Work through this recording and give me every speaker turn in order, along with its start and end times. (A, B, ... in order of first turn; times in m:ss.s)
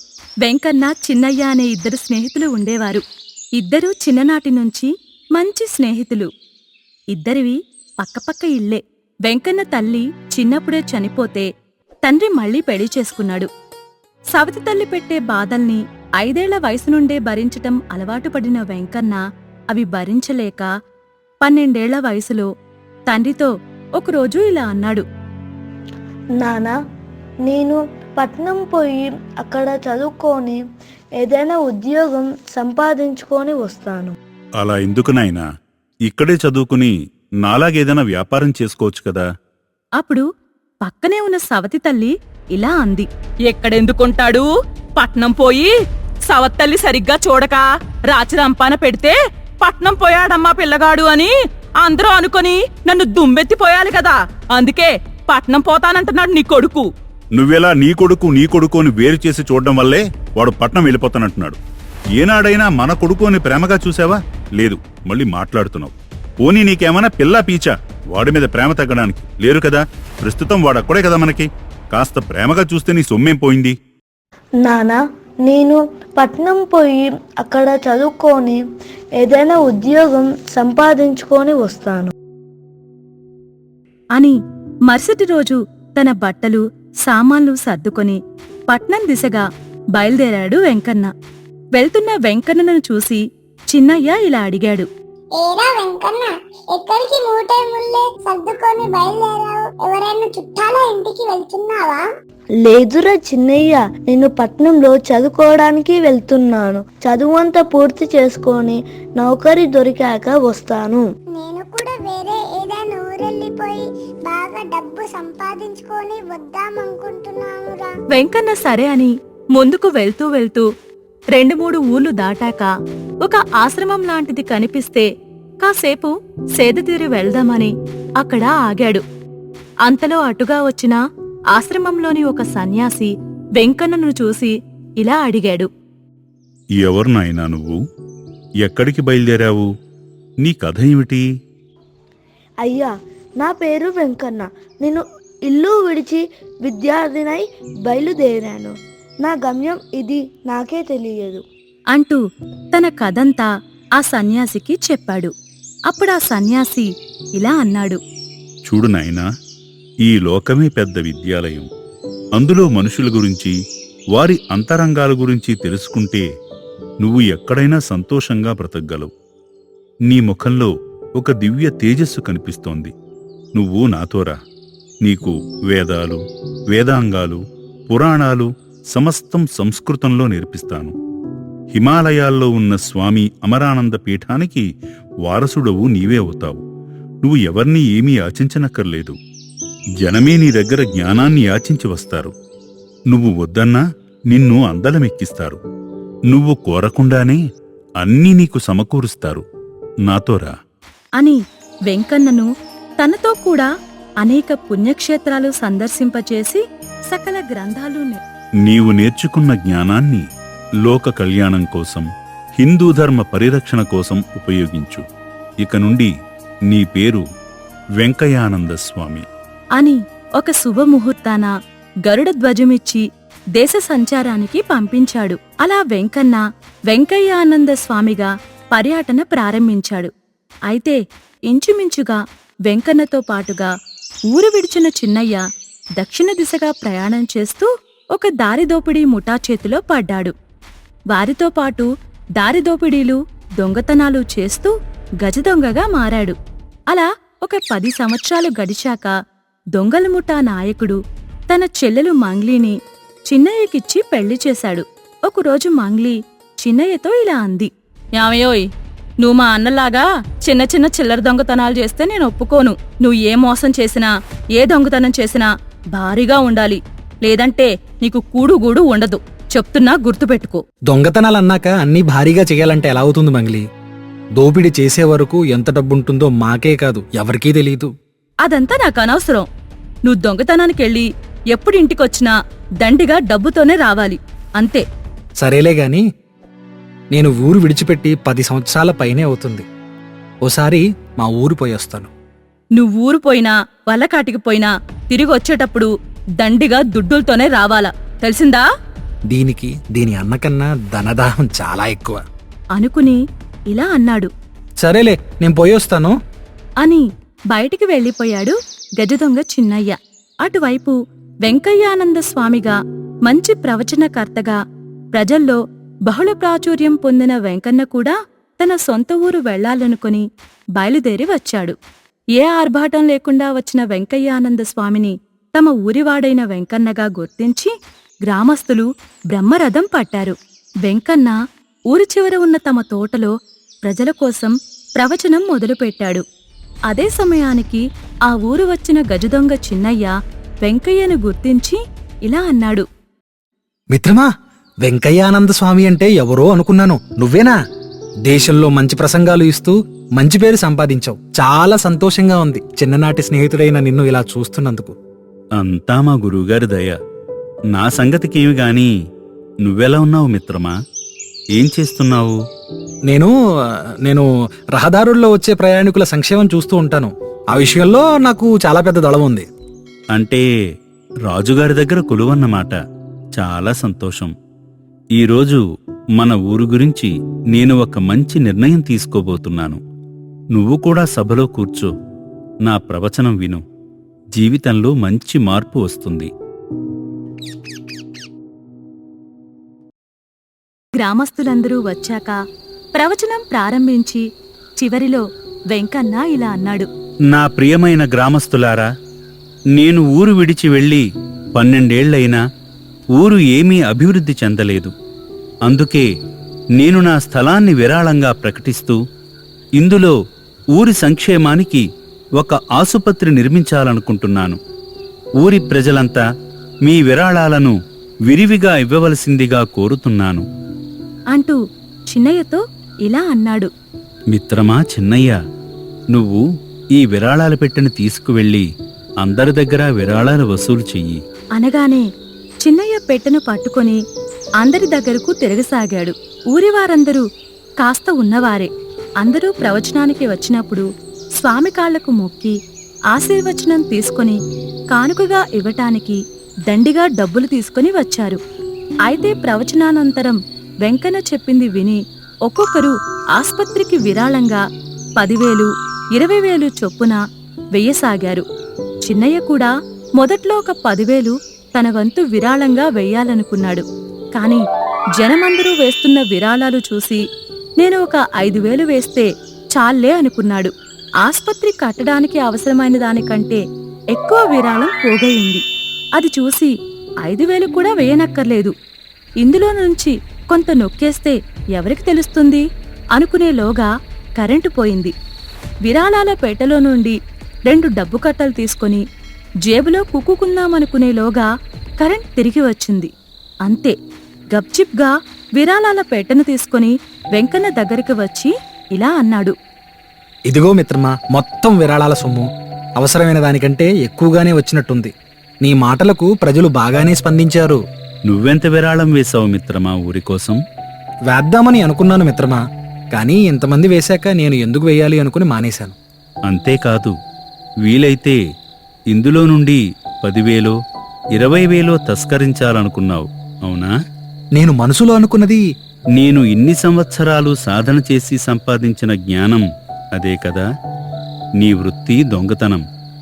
0:00.4-0:03.0 A
0:03.6-0:06.3 A
0:07.1-0:11.5 A
0:12.0-0:13.5 A
0:14.3-0:20.7 A
0:21.4-0:22.5 A
0:23.1-0:25.0 A
0:26.4-0:26.8 B
0:27.4-0:30.6 B
0:31.2-0:34.2 B
0:34.6-0:35.5 C
0:36.1-0:39.2 C
0:40.0-0:40.3 A
0:40.8-0:45.7 A
0:46.3-0:56.9 A
0:57.3-1:01.6 C
1:02.2-1:13.8 C
1:14.6-1:18.6 B
1:19.2-1:22.1 B
1:24.9-1:29.4 A
1:30.0-1:31.1 A
1:31.7-1:34.9 A
1:35.4-1:42.0 D
1:42.6-1:51.0 B
1:51.3-1:57.9 D
1:58.1-2:00.7 A
2:01.3-2:05.1 A
2:05.6-2:09.0 A
2:09.8-2:11.0 A
2:11.5-2:15.7 A
2:16.8-2:17.8 C
2:18.6-2:19.7 C
2:20.4-2:21.3 C
2:22.6-2:31.4 B
2:31.9-2:32.2 A
2:32.7-2:35.3 A
2:35.9-2:38.0 A
2:38.7-2:39.3 C
2:40.1-2:41.7 C
2:42.4-2:43.6 C
2:44.2-2:46.3 C
2:47.0-2:49.1 C
2:50.1-2:52.9 C
2:53.6-2:54.4 C
2:55.0-3:01.0 C
3:01.7-3:04.7 C
3:05.2-3:06.6 C
3:07.2-3:09.2 C
3:10.0-3:12.3 C
3:13.1-3:15.6 C
3:16.3-3:17.4 C
3:18.0-3:19.4 C
3:20.1-3:20.5 C
3:21.2-3:23.7 A
3:24.2-3:28.2 A
3:28.6-3:30.2 C
3:30.8-3:32.1 C
3:32.6-3:35.0 C
3:35.6-3:36.1 C
3:36.7-3:37.2 C
3:38.0-3:39.2 C
3:39.8-3:41.5 A
3:42.1-3:43.0 A
3:43.6-3:50.1 A
3:50.7-3:53.7 A
3:54.3-3:55.4 A
3:56.0-4:00.3 A
4:01.1-4:06.4 A
4:06.9-4:09.1 A
4:09.8-4:12.8 A
4:13.3-4:18.7 A
4:19.2-4:30.6 A
4:30.9-4:33.7 E
4:34.4-4:37.9 E
4:38.4-4:39.5 A
4:40.1-4:44.8 A
4:45.4-4:46.0 E
4:47.1-4:49.7 E
4:50.4-4:52.1 E
4:52.8-4:55.9 A
4:56.4-4:58.6 A
4:59.3-5:02.2 E
5:02.8-5:03.2 A
5:03.7-5:04.3 A
5:04.8-5:06.2 E
5:06.8-5:14.6 A
5:15.1-5:20.3 A
5:20.8-5:21.8 A
5:22.4-5:27.7 A
5:28.2-5:31.4 A
5:31.9-5:33.3 A
5:33.8-5:36.2 A
5:36.9-5:42.9 A
5:43.9-5:44.3 E
5:44.8-5:47.6 E
5:48.2-5:55.0 E
5:55.6-5:57.0 C
5:57.7-5:58.9 C
5:59.6-6:00.8 C
6:01.6-6:02.4 C
6:03.1-6:03.3 E
6:04.0-6:09.5 E
6:10.1-6:10.4 C
6:11.3-6:12.8 C
6:13.4-6:14.3 C
6:15.2-6:15.6 C
6:16.2-6:19.8 C
6:20.5-6:21.9 C
6:22.7-6:23.6 C
6:24.4-6:26.3 C
6:31.0-6:32.4 A
6:33.0-6:34.2 A
6:34.8-6:36.9 A
6:37.3-6:38.9 C
6:39.8-6:42.4 C
6:43.2-6:44.9 C
6:45.6-6:46.1 C
6:46.8-6:49.0 C
6:49.8-6:50.2 C
6:50.8-6:51.8 C
6:52.4-6:54.6 C
6:55.4-6:56.2 C
6:56.8-6:57.8 C
6:58.3-7:00.5 C
7:01.3-7:03.7 A
7:04.3-7:05.4 C
7:06.1-7:06.4 C
7:07.0-7:08.7 C
7:09.2-7:11.2 C
7:11.6-7:12.1 A
7:12.6-7:14.0 A
7:14.6-7:17.2 A
7:17.8-7:22.6 A
7:23.1-7:24.4 A
7:24.9-7:28.4 A
7:29.0-7:34.6 A
7:35.2-7:37.2 A
7:37.7-7:38.4 A
7:39.0-7:44.6 A
7:45.2-7:47.2 A
7:47.8-7:53.6 A
7:54.1-7:55.6 A
7:56.2-7:56.7 A
7:57.2-7:58.7 A
7:59.4-8:05.1 A
8:05.8-8:09.0 A
8:09.6-8:11.5 A
8:12.0-8:13.1 A
8:13.6-8:14.0 A
8:14.5-8:19.5 A
8:20.5-8:22.5 E
8:23.0-8:27.8 E
8:28.3-8:30.6 C
8:31.3-8:32.6 E
8:33.1-8:36.0 E
8:36.5-8:37.2 C
8:37.8-8:38.4 C
8:39.1-8:40.8 C
8:41.4-8:43.9 C
8:44.6-8:45.6 E
8:46.2-8:50.6 C
8:51.6-8:52.8 C